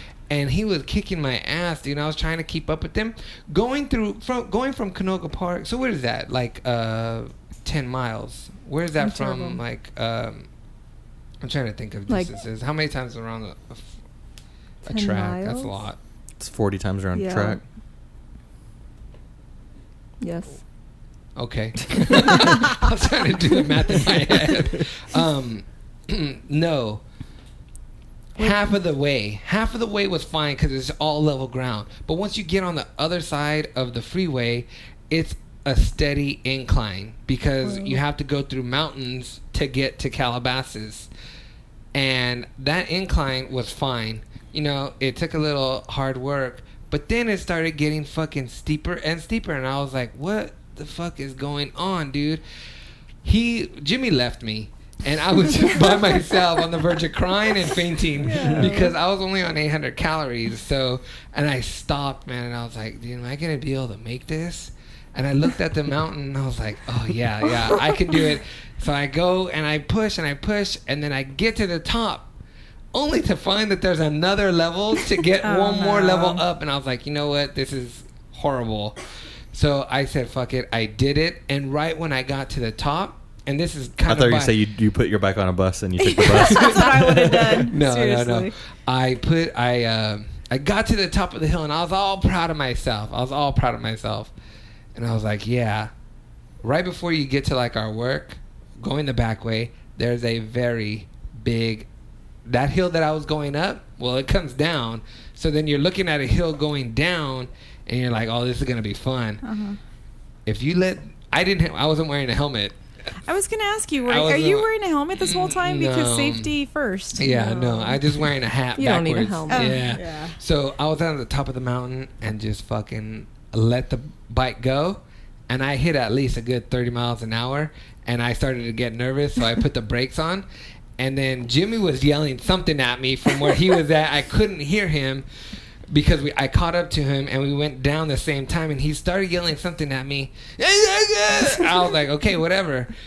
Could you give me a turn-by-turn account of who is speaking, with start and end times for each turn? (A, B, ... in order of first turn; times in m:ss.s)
0:00.3-0:10.5 A
0:09.0-0:09.6 B
0:11.4-0:13.9 A
0:12.1-0:12.3 B
0:14.8-0:16.0 A
0:14.8-0:15.8 B
0:16.4-0:17.6 C
0:17.1-0:17.6 B
0:20.2-0:20.6 B
0:21.4-0:27.0 A
0:28.4-0:41.1 A
0:37.6-0:38.0 D
0:41.9-0:52.4 A
0:53.2-1:12.3 A
0:58.2-0:58.9 D
1:12.9-1:19.0 A
1:15.4-1:16.4 D
1:19.5-1:24.6 A
1:24.0-1:27.7 C
1:26.0-1:28.5 D
1:27.6-1:34.3 A
1:34.9-1:35.9 A
1:36.6-1:41.9 A
1:42.4-1:49.4 A
1:49.4-1:49.8 D
1:50.4-1:52.8 A
1:53.2-1:58.0 D
1:54.0-1:56.5 A
1:57.2-2:10.4 A
1:58.8-1:59.8 B
1:59.5-2:00.3 D
2:11.0-2:15.2 A
2:15.9-2:22.9 A